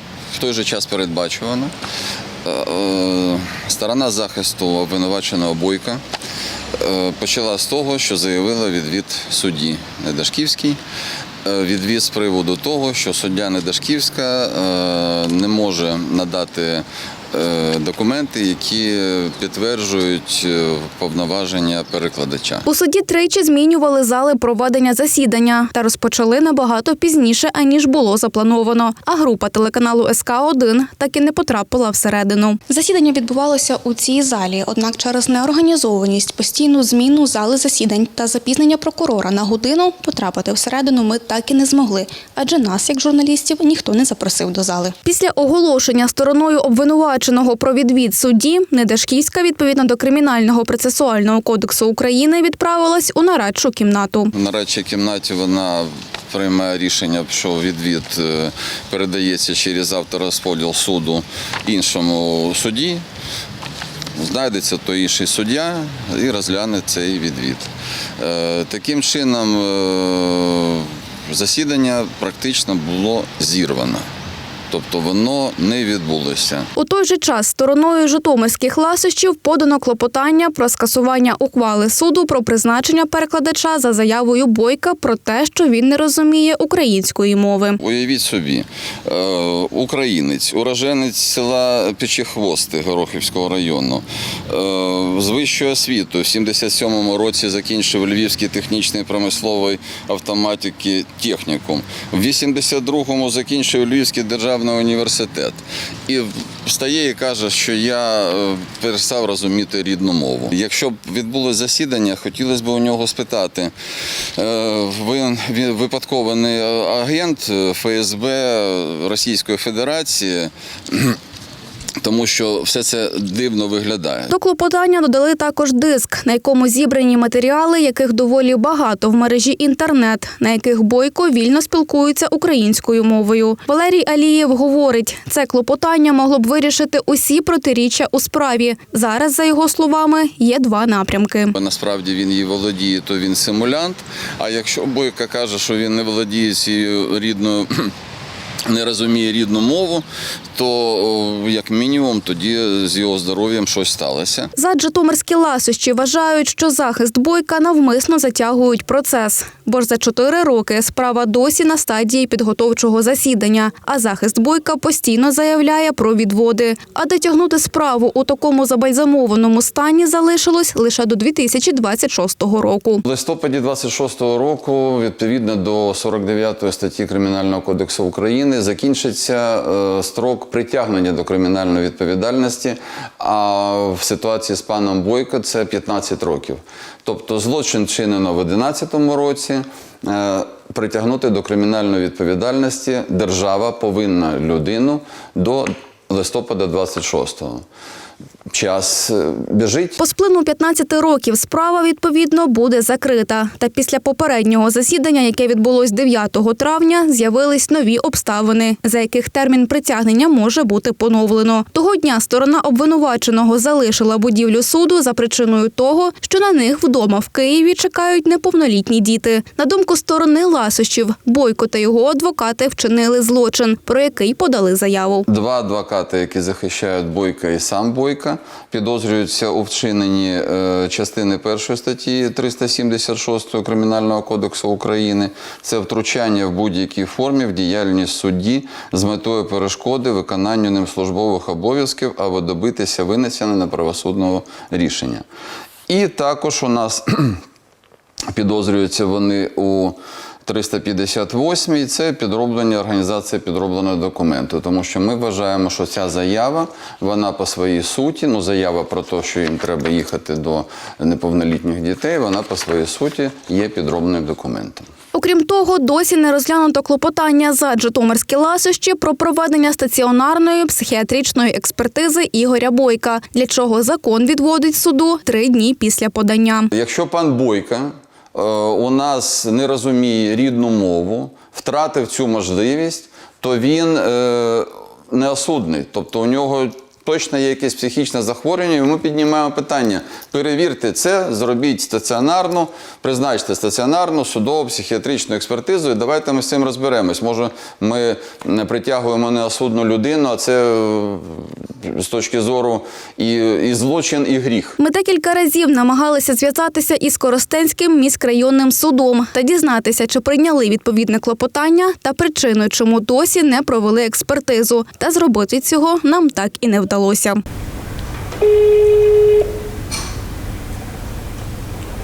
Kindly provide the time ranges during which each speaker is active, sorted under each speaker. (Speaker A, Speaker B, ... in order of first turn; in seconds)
Speaker A: 0.3-1.7, 2.4-6.0, 6.8-10.8, 11.4-22.6, 54.3-63.0, 64.2-74.0, 74.7-76.7, 87.8-113.7, 114.3-121.2, 122.0-124.3, 141.5-147.9, 148.7-150.0, 150.6-154.5, 173.0-197.6, 198.5-200.0, 225.3-245.2, 245.9-247.4, 248.3-264.9, 276.7-304.8
Speaker B: 22.6-54.3, 76.8-87.8, 124.3-141.6, 154.6-173.0, 200.0-225.2, 265.1-276.7, 304.8-317.4